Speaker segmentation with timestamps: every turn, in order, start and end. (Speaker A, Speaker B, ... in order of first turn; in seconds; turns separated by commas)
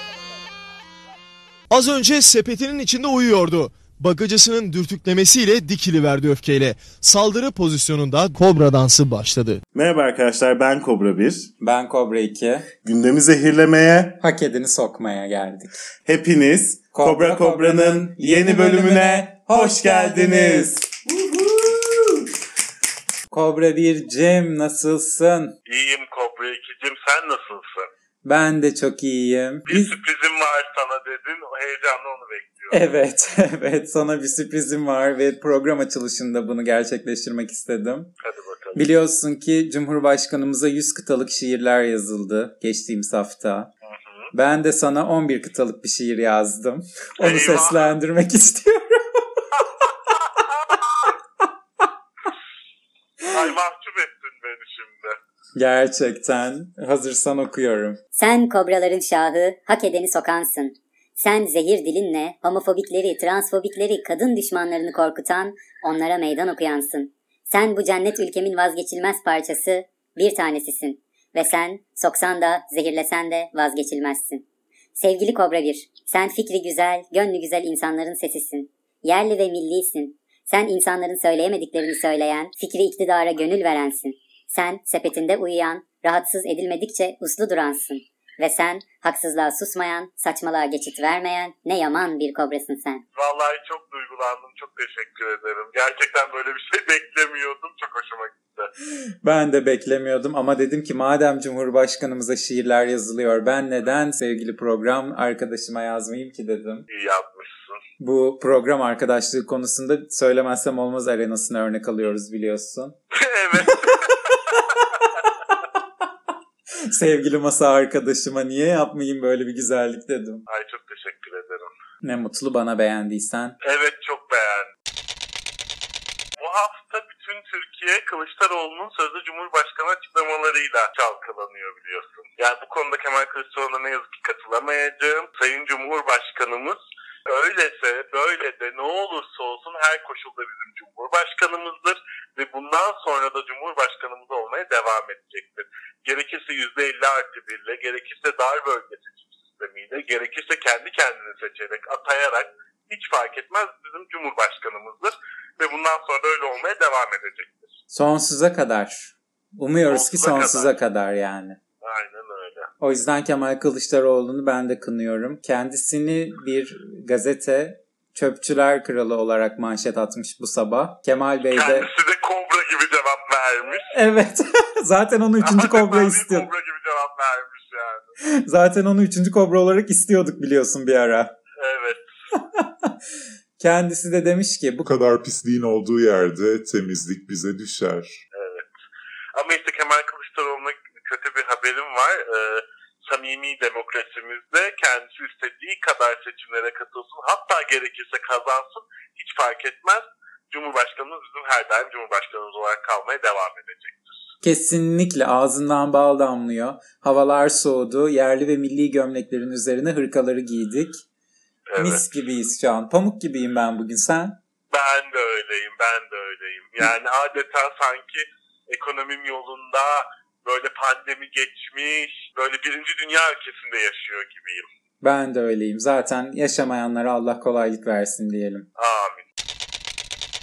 Speaker A: 1.7-9.6, Speaker B: 9.7-11.5, Speaker C: 11.6-12.7, Speaker B: 12.8-14.2, Speaker C: 14.2-15.8, Speaker B: 16.1-22.0, Speaker C: 16.9-20.8, Speaker C: 23.3-25.6, Speaker D: 25.7-27.9, Speaker C: 28.2-29.9, Speaker D: 29.7-32.9, Speaker C: 32.7-38.1, Speaker D: 38.2-38.9, Speaker C: 38.8-43.7, Speaker D: 43.8-44.3, Speaker C: 44.3-49.6, Speaker D: 47.2-47.9, Speaker D: 50.1-50.8, Speaker D: 53.2-55.2, Speaker C: 55.6-58.0, Speaker E: 58.2-74.4, Speaker E: 75.0-93.0, Speaker D: 93.2-98.7, Speaker C: 99.2-106.8, Speaker D: 106.9-107.8, Speaker C: 108.0-113.0, Speaker D: 113.1-114.8, Speaker C: 113.6-114.0, Speaker C: 116.8-120.5, Speaker D: 120.5-121.7, Speaker C: 122.0-123.6, Speaker D: 123.6-124.7, Speaker D: 126.4-157.8, Speaker C: 157.9-161.6, Speaker D: 159.9-160.8, Speaker D: 161.8-162.7, Speaker C: 162.8-171.9, Speaker D: 171.5-173.9, Speaker C: 173.9-176.5, Speaker D: 175.4-178.2, Speaker C: 178.2-181.3, Speaker D: 181.6-182.0, Speaker C: 182.3-182.9, Speaker C: 183.6-184.9, Speaker F: 184.8-188.2, Speaker D: 188.3-188.7, Speaker D: 189.3-204.2, Speaker C: 204.4-211.0, Speaker D: 211.7-212.0, Speaker C: 211.8-214.4, Speaker D: 214.7-224.7, Speaker C: 225.0-228.7, Speaker D: 228.8-229.3